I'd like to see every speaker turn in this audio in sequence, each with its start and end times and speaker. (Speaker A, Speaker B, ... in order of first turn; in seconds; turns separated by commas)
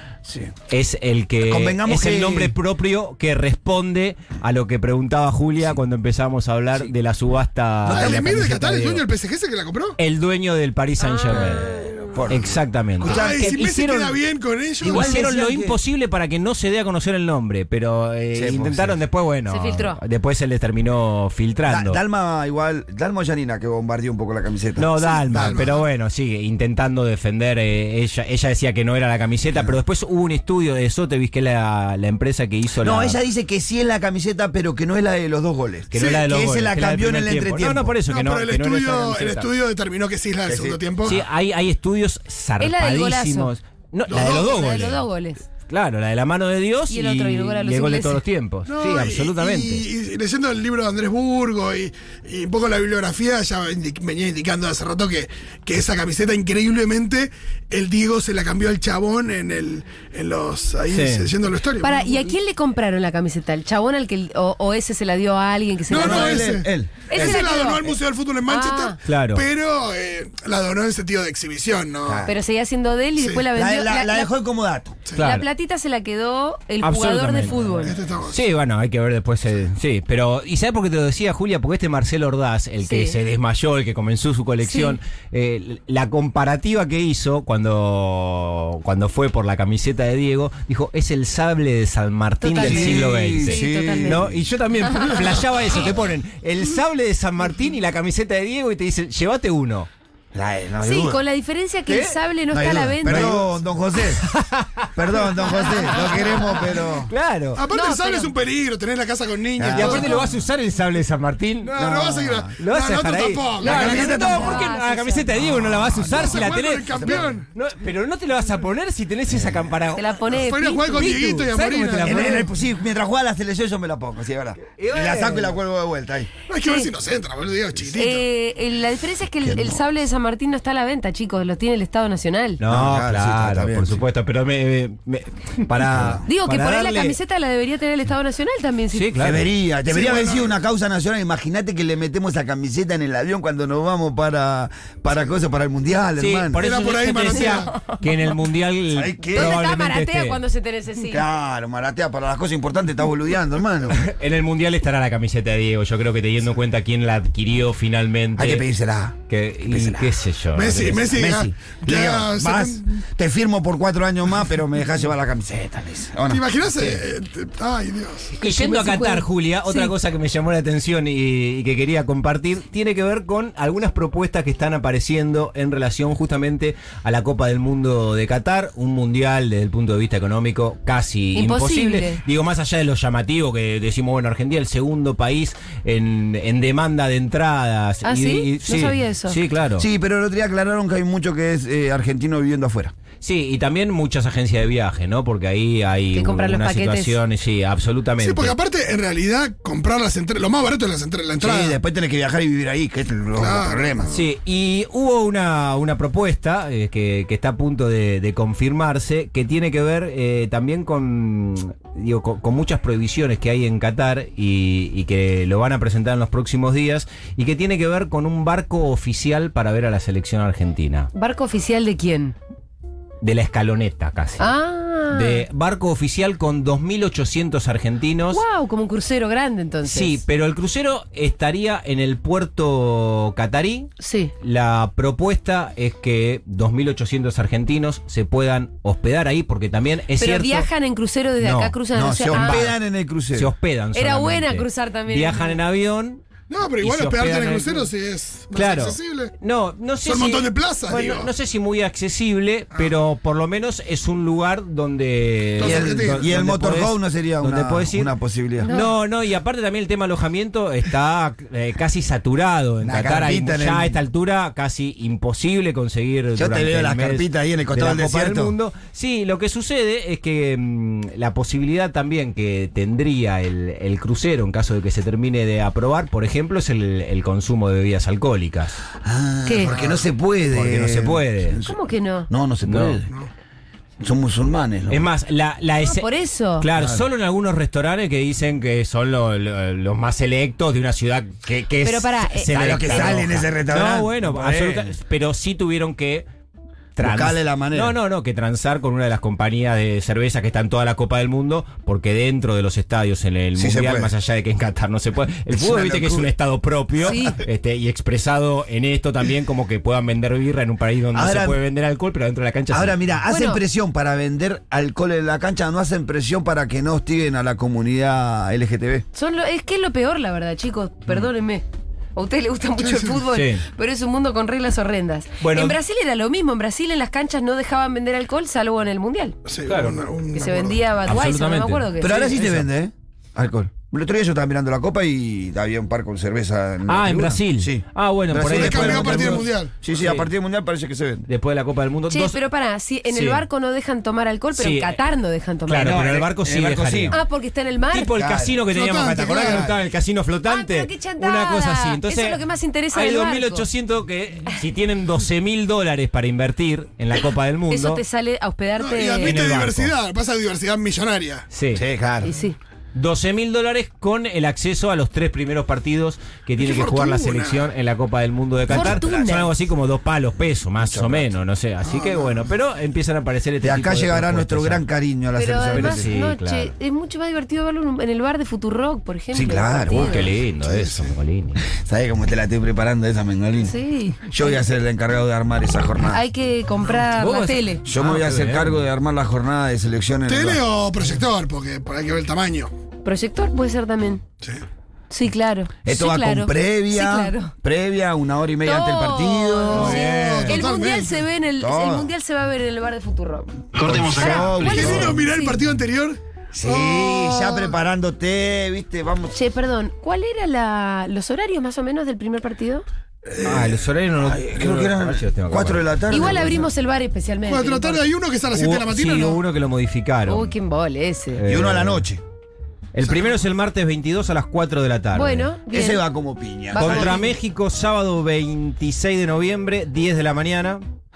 Speaker A: 0.3-0.5, Speaker B: 0.7-9.1, Speaker A: 1.4-2.5, Speaker C: 7.8-10.0, Speaker A: 7.9-8.4, Speaker B: 10.0-11.7, Speaker D: 11.2-11.5, Speaker A: 11.3-13.6, Speaker B: 12.3-14.2, Speaker C: 13.0-15.2, Speaker A: 14.8-15.8, Speaker B: 14.8-22.0, Speaker A: 18.3-19.0, Speaker D: 19.5-20.0, Speaker A: 21.7-25.5, Speaker B: 24.8-33.2, Speaker C: 25.0-25.8, Speaker A: 32.8-37.9, Speaker B: 35.9-39.5, Speaker C: 38.1-41.2, Speaker A: 40.5-40.8, Speaker B: 41.0-45.0, Speaker D: 42.6-43.5, Speaker C: 44.1-44.8, Speaker D: 44.2-45.5, Speaker B: 45.7-49.9, Speaker D: 46.9-48.2, Speaker C: 48.7-62.0, Speaker B: 60.9-61.3, Speaker D: 61.8-66.5, Speaker C: 65.9-72.2, Speaker A: 65.9-67.4, Speaker D: 67.1-69.0, Speaker B: 69.0-69.5, Speaker A: 72.1-72.3, Speaker D: 72.2-74.3, Speaker C: 73.2-73.4, Speaker A: 73.5-75.0, Speaker D: 75.2-78.0, Speaker B: 75.2-75.5, Speaker B: 76.8-77.6, Speaker C: 77.8-78.4, Speaker B: 78.3-99.9, Speaker D: 82.8-83.2, Speaker D: 84.6-85.0, Speaker D: 92.4-94.2, Speaker A: 92.6-94.4, Speaker D: 94.9-95.4, Speaker A: 100.3-101.2, Speaker D: 100.8-103.3, Speaker B: 101.9-102.2, Speaker A: 102.5-104.3, Speaker B: 103.0-103.5, Speaker B: 104.2-107.6, Speaker A: 105.0-107.1, Speaker D: 105.5-106.6, Speaker C: 107.5-110.3, Speaker D: 107.7-108.3, Speaker A: 109.6-110.1, Speaker B: 109.7-111.7, Speaker D: 110.0-110.3, Speaker C: 111.6-114.6, Speaker A: 111.8-112.5, Speaker B: 112.6-120.1, Speaker D: 113.6-115.3, Speaker A: 113.6-114.5, Speaker A: 115.8-116.4, Speaker C: 116.0-117.5, Speaker A: 117.0-117.3, Speaker D: 119.9-121.5, Speaker C: 120.2-122.4, Speaker B: 120.9-122.5, Speaker A: 122.0-126.3, Speaker B: 124.8-125.6, Speaker C: 126.5-128.2, Speaker D: 128.0-132.6, Speaker A: 129.4-129.8, Speaker B: 132.6-137.2, Speaker A: 132.7-134.0, Speaker A: 135.9-136.2, Speaker D: 136.2-139.1, Speaker B: 138.9-139.5, Speaker A: 139.2-146.6, Speaker C: 139.9-140.5, Speaker B: 146.2-150.4, Speaker C: 146.6-147.7, Speaker D: 147.3-148.0, Speaker A: 148.9-149.6, Speaker D: 149.3-151.2, Speaker A: 151.1-154.0, Speaker B: 153.9-158.7, Speaker A: 158.4-160.2, Speaker B: 159.3-161.2, Speaker C: 160.5-162.8, Speaker A: 161.1-166.4, Speaker C: 166.3-168.3, Speaker B: 168.4-189.9, Speaker D: 168.4-169.9, Speaker D: 181.3-182.2, Speaker D: 188.1-189.4, Speaker A: 189.8-192.9, Speaker B: 193.2-198.6, Speaker D: 196.1-197.2, Speaker C: 198.2-201.8, Speaker A: 201.4-204.2, Speaker C: 203.4-204.2, Speaker B: 204.1-221.1, Speaker D: 221.1-222.4, Speaker B: 223.2-224.5, Speaker D: 224.4-225.4, Speaker B: 225.1-228.4, Speaker D: 228.3-230.2, Speaker B: 229.8-240.7, Speaker D: 234.0-234.3, Speaker D: 240.2-242.7, Speaker B: 241.4-241.8, Speaker A: 241.9-243.5, Speaker B: 242.3-242.8, Speaker B: 243.3-246.2, Speaker D: 243.9-245.6, Speaker C: 246.5-249.3, Speaker B: 246.8-247.9, Speaker B: 248.5-278.8, Speaker C: 250.0-251.3, Speaker C: 255.6-256.3, Speaker A: 255.6-258.7, Speaker D: 258.6-258.9, Speaker A: 262.8-264.0, Speaker A: 266.4-268.6, Speaker A: 279.0-283.1, Speaker D: 279.4-279.8, Speaker B: 280.5-281.6, Speaker D: 281.6-282.3, Speaker B: 282.6-283.0, Speaker A: 284.0-285.1, Speaker B: 284.9-296.3, Speaker D: 285.8-286.7, Speaker A: 286.8-287.1, Speaker D: 291.8-293.2, Speaker A: 292.5-294.9, Speaker B: 297.0-313.0, Speaker A: 297.0-298.0, Speaker A: 303.6-304.1, Speaker A: 305.5-306.3, Speaker D: 307.0-307.4, Speaker A: 311.1-311.6, Speaker A: 312.7-319.1, Speaker D: 313.3-313.6, Speaker D: 319.1-329.4, Speaker B: 323.3-323.6, Speaker B: 325.4-325.8, Speaker C: 329.5-330.8, Speaker B: 329.7-330.0, Speaker D: 330.3-332.4, Speaker B: 331.1-332.7, Speaker A: 332.0-341.3, Speaker B: 336.9-340.3, Speaker C: 338.4-339.7, Speaker B: 341.3-342.4, Speaker D: 342.1-346.0, Speaker B: 343.1-343.4, Speaker B: 344.6-345.0, Speaker B: 345.7-347.2, Speaker A: 345.8-347.2, Speaker D: 347.1-348.1, Speaker B: 347.9-352.4, Speaker A: 348.1-348.6, Speaker C: 348.7-349.7, Speaker A: 349.1-349.8, Speaker D: 350.5-353.7, Speaker B: 352.9-358.0, Speaker D: 357.7-359.4, Speaker C: 358.8-361.5, Speaker B: 359.2-359.9, Speaker B: 361.5-361.8, Speaker A: 361.7-362.3, Speaker D: 362.2-362.6, Speaker B: 362.9-374.9, Speaker C: 366.6-367.7, Speaker D: 368.7-369.5, Speaker A: 368.7-369.3, Speaker A: 370.8-371.3, Speaker A: 371.9-372.4, Speaker A: 373.6-376.1, Speaker D: 375.4-380.3, Speaker B: 375.7-376.7, Speaker A: 379.3-381.0, Speaker B: 379.9-381.6, Speaker A: 381.6-383.7, Speaker D: 383.6-384.6, Speaker A: 384.3-386.2, Speaker D: 386.1-387.9, Speaker B: 387.0-388.7, Speaker A: 387.9-390.6, Speaker C: 390.3-392.7, Speaker D: 393.0-394.2, Speaker D: 395.1-397.5, Speaker A: 395.9-400.6, Speaker D: 398.6-405.6, Speaker C: 399.7-401.2, Speaker A: 401.6-402.1, Speaker A: 403.8-405.2, Speaker C: 404.6-407.7, Speaker A: 406.5-409.3, Speaker D: 409.3-412.9, Speaker C: 413.2-413.8, Speaker B: 413.4-416.4, Speaker A: 414.2-416.7, Speaker D: 416.1-418.0, Speaker C: 417.5-419.4, Speaker B: 418.5-420.5, Speaker D: 420.3-421.4, Speaker B: 421.3-422.1, Speaker A: 421.4-422.2, Speaker B: 422.9-425.5, Speaker D: 425.1-426.0, Speaker A: 425.7-427.2, Speaker D: 426.7-427.4, Speaker B: 426.8-430.8